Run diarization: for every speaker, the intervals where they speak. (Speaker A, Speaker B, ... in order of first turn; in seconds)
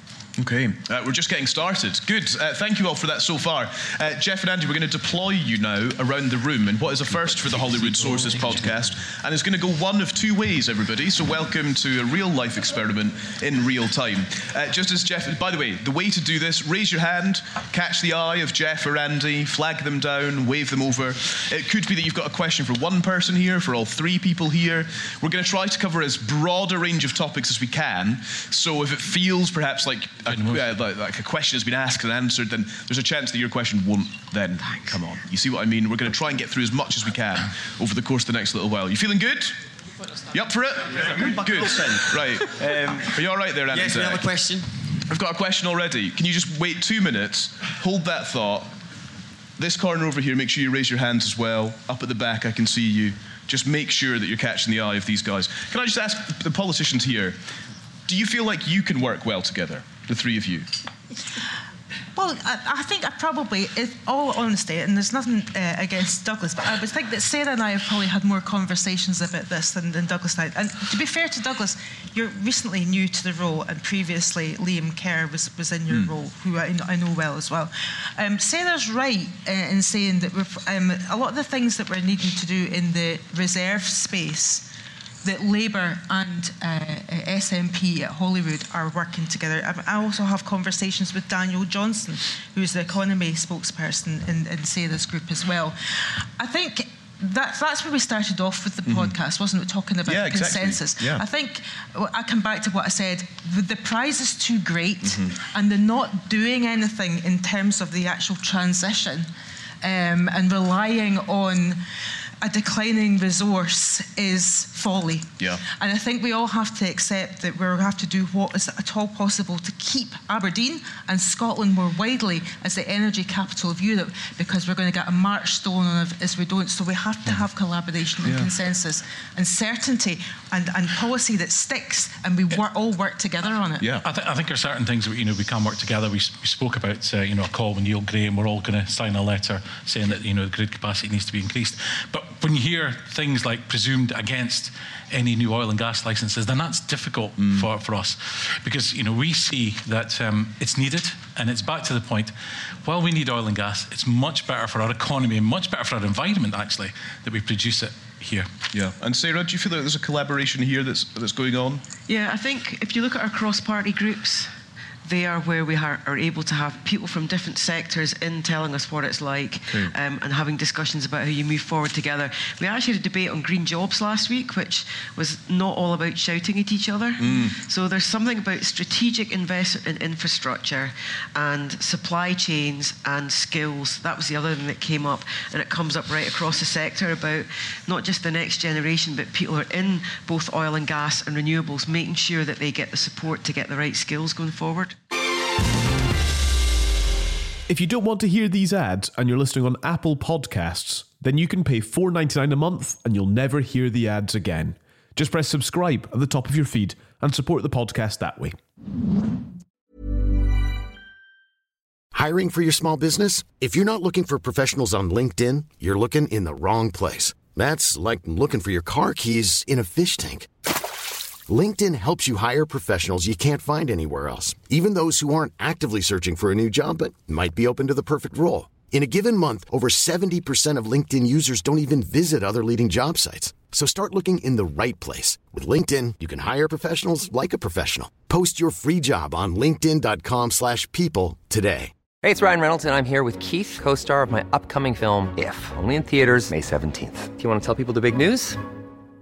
Speaker A: 0.4-39.6, 40.3-44.3, 45.1-48.7, 49.6-57.4, 58.1-60.7, 98.9-99.1, 100.1-101.2, 105.0-105.3, 128.2-128.5, 147.4-147.7, 158.7-161.8, 177.2-177.6
Speaker B: 7.3-8.8, 30.4-30.7, 134.0-158.5
Speaker C: 41.0-43.2, 43.7-44.7
Speaker D: 62.2-84.7, 85.2-109.3, 109.8-111.8, 112.4-133.9
Speaker E: 162.1-164.5, 165.1-194.9
Speaker F: 197.7-208.6
Speaker G: 212.1-220.5, 221.5-241.9
Speaker H: 242.2-248.6